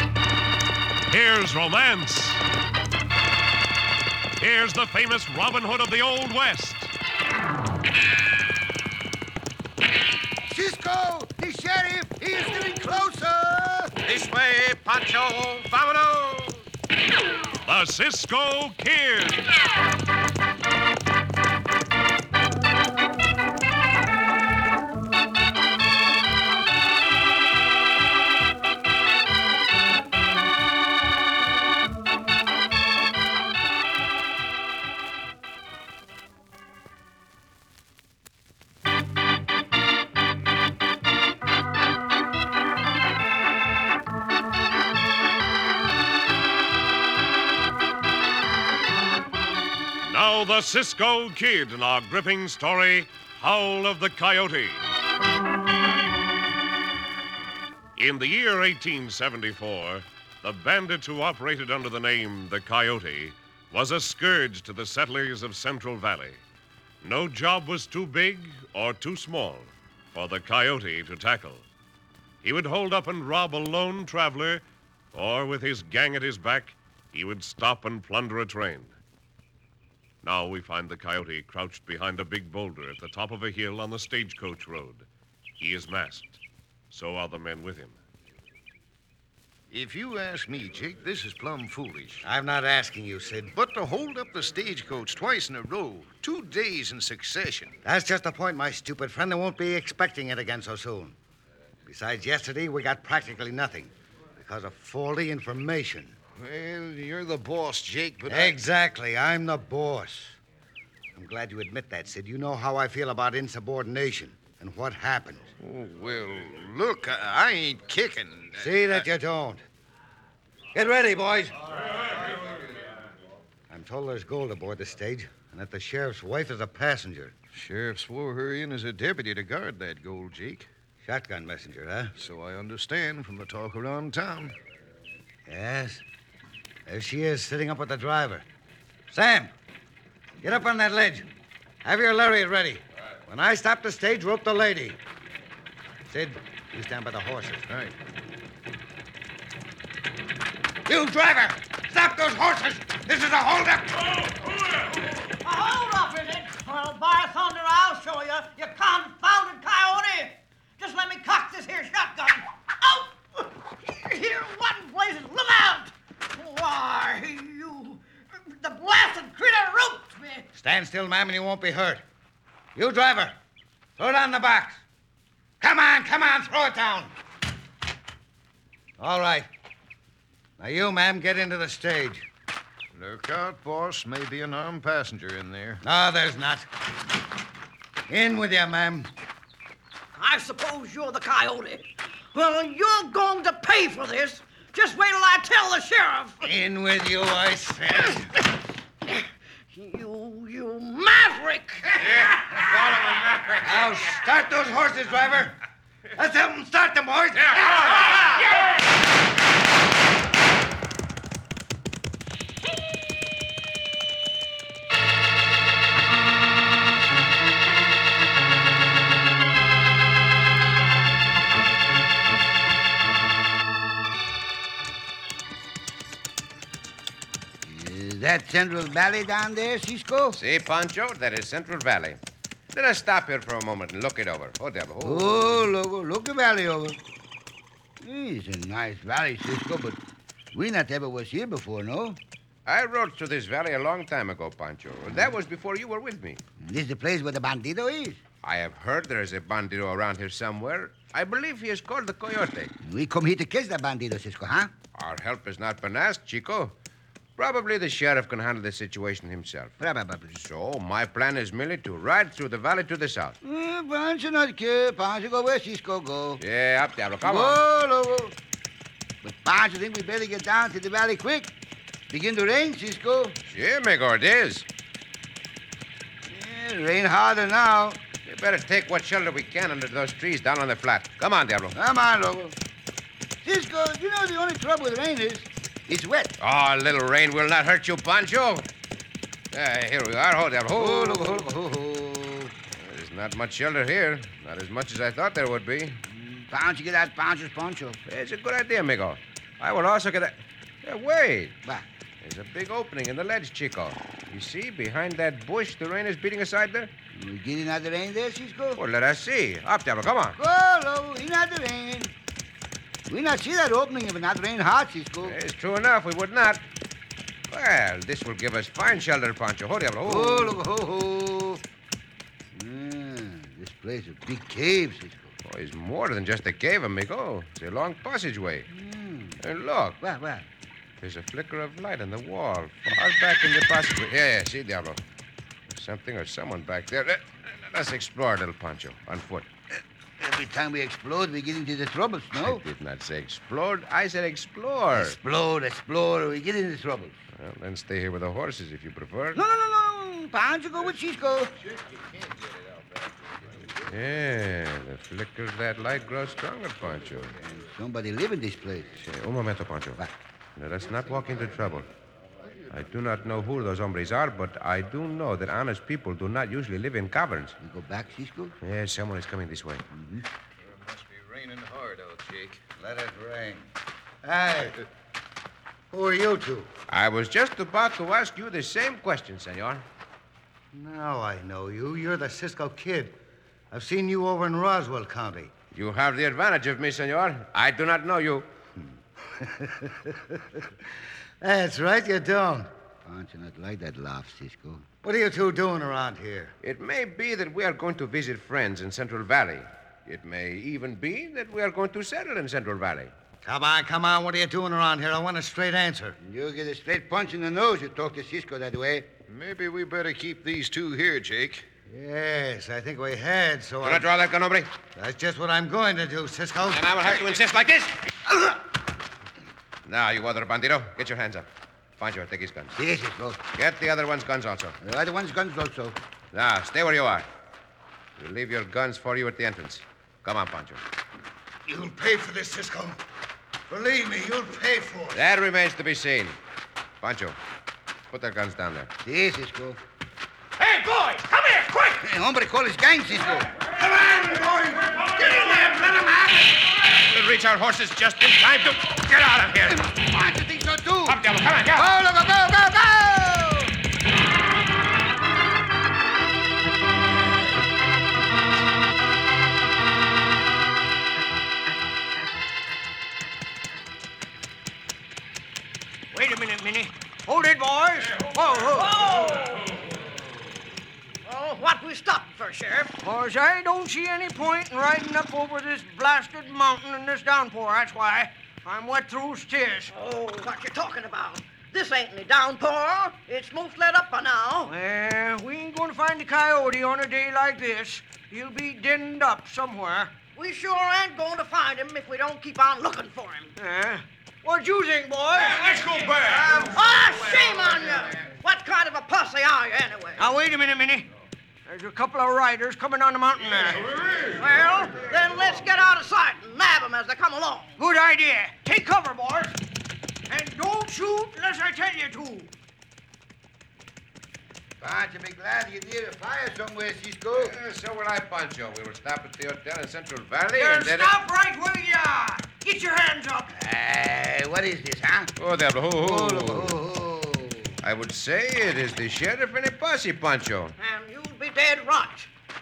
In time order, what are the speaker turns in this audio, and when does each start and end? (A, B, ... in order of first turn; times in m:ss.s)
0:01.1-0:02.4 A
0:04.4-0:06.9 A
0:10.4-0:13.9 B
0:14.0-0:16.6 C
0:17.6-0:19.5 A
0:50.0-0:54.8 A
0:58.0-1:06.4 A
1:07.0-1:11.6 A
1:12.4-1:18.9 A
1:20.2-1:25.0 A
1:25.6-1:26.4 A
1:26.9-1:27.9 A
1:29.7-1:32.2 D
1:32.2-1:33.5 E
1:33.5-1:37.7 D
1:37.8-1:41.1 E
1:41.8-1:46.1 E
1:46.4-1:48.6 D
1:48.3-1:50.4 E
1:51.1-1:55.5 E
1:55.6-1:59.0 D
1:58.6-1:59.6 E
2:00.7-2:01.6 E
2:03.7-2:07.3 E
2:07.5-2:10.7 D
2:11.0-2:12.1 E
2:12.2-2:14.5 D
2:15.5-2:16.0 E
2:16.8-2:18.4 E
2:19.1-2:19.5 E
2:20.4-2:21.3 E
2:21.8-2:25.0 E
2:26.1-2:27.6 E
2:27.7-2:27.9 D
2:30.9-2:34.3 E
2:35.4-2:50.5 F
2:50.6-2:52.0 E
2:52.7-2:53.4 E
2:54.0-2:54.8 E
2:55.6-2:57.1 E
2:59.0-2:59.5 E
3:00.6-3:02.3 E
3:02.9-3:05.8 D
3:05.8-3:06.6 E
3:08.1-3:09.1 E
3:10.1-3:16.5 F
3:16.4-3:18.3 E
3:19.0-3:22.0 F
3:22.0-3:24.1 C
3:23.6-3:25.6 E
3:26.1-3:28.2 E
3:47.6-3:50.4 B
3:50.3-3:52.2 C
3:52.7-3:55.6 C
3:55.0-3:57.0 B
3:58.0-4:00.0 B
4:00.5-4:02.2 B
4:02.7-4:06.4 C
4:06.6-4:08.2 B
4:08.4-4:12.7 C
4:12.8-4:14.7 B
4:14.9-4:16.7 C
4:17.4-4:19.7 C
4:19.8-4:20.3 B
4:20.3-4:23.4 C
4:23.4-4:26.4 B
4:26.4-4:27.6 C
4:27.2-4:28.4 B
4:29.2-4:31.5 B
4:32.1-4:33.4 B
4:33.5-4:34.6 C
4:36.3-4:38.0 B
4:38.2-4:41.8 C
4:41.7-4:42.6 B
4:43.4-4:46.4 B
4:46.4-4:48.7 C
4:49.5-4:51.4 C
4:50.7-4:52.5 B
4:52.7-4:56.0 C
4:56.1-4:58.0 B
4:58.1-5:01.6 C
5:02.2-5:06.9 C
5:07.1-5:08.8 B
5:08.8-5:10.4 C
5:10.4-5:12.1 B
5:13.1-5:15.4 B
5:15.2-5:16.6 C
5:17.5-5:20.6 C
5:20.0-5:21.6 B
5:22.5-5:25.3 B
5:25.4-5:28.7 C
5:28.7-5:29.4 B
5:29.4-5:30.0 C
5:30.0-5:30.5 B
5:31.0-5:35.0 C
5:35.7-5:39.5 C
5:40.2-5:42.6 B
5:42.4-5:45.2 C
5:44.9-5:47.2 B
5:47.3-5:49.4 C
5:49.3-5:51.5 B
5:51.8-5:52.6 D
5:53.8-5:57.4 C
5:57.4-5:59.0 B
5:59.0-6:00.0 C
6:00.6-6:01.9 C
6:02.7-6:07.6 C
6:07.6-6:08.6 B
6:08.6-6:09.8 C
6:09.9-6:10.3 B
6:10.6-6:12.6 D
6:12.8-6:13.7 E
6:14.2-6:14.8 E
6:15.9-6:16.7 E
6:16.9-6:19.8 C
6:20.7-6:23.1 E
6:23.7-6:25.5 E
6:25.7-6:28.5 C
6:29.3-6:30.7 E
6:31.4-6:32.7 E
6:33.0-6:34.8 B
6:35.0-6:36.5 E
6:36.6-6:43.1 C
6:43.4-6:46.2 E
6:46.2-6:49.1 B
6:49.3-6:51.6 D
6:51.9-6:54.1 E
6:53.8-6:54.7 C
6:54.9-6:56.9 E
6:56.7-6:58.1 C
6:59.8-7:01.5 C
7:02.0-7:02.7 C
7:02.8-7:03.4 B
7:03.5-7:04.8 C
7:04.8-7:06.0 B
7:06.3-7:07.3 C
7:08.2-7:10.8 C
7:11.7-7:13.0 E
7:13.7-7:15.2 E
7:15.1-7:16.4 C
7:17.0-7:17.4 C
7:18.1-7:18.9 C
7:19.0-7:19.8 B
7:20.6-7:22.0 C
7:22.0-7:23.5 B
7:23.8-7:25.0 E
7:25.0-7:26.5 B
7:27.0-7:29.9 C
7:29.7-7:31.2 B
7:31.0-7:31.9 C
7:31.7-7:33.7 B
7:46.1-7:49.0 G
7:48.7-7:49.7 F
7:51.2-7:52.9 F
7:53.0-7:59.9 G
7:59.9-8:04.7 F
8:04.6-8:10.2 G
8:10.4-8:13.5 F
8:13.6-8:16.4 G
8:16.6-8:20.3 F
8:20.2-8:21.1 G
8:21.6-8:24.3 G
8:24.4-8:27.8 F
8:27.8-8:29.6 G
8:30.3-8:32.5 G
8:34.8-8:37.5 B
8:37.3-8:41.1 C
8:40.6-8:43.5 G
8:43.5-8:45.3 B
8:45.4-8:46.8 C
8:46.0-8:47.8 B
8:47.8-8:50.8 C
8:50.8-8:52.3 F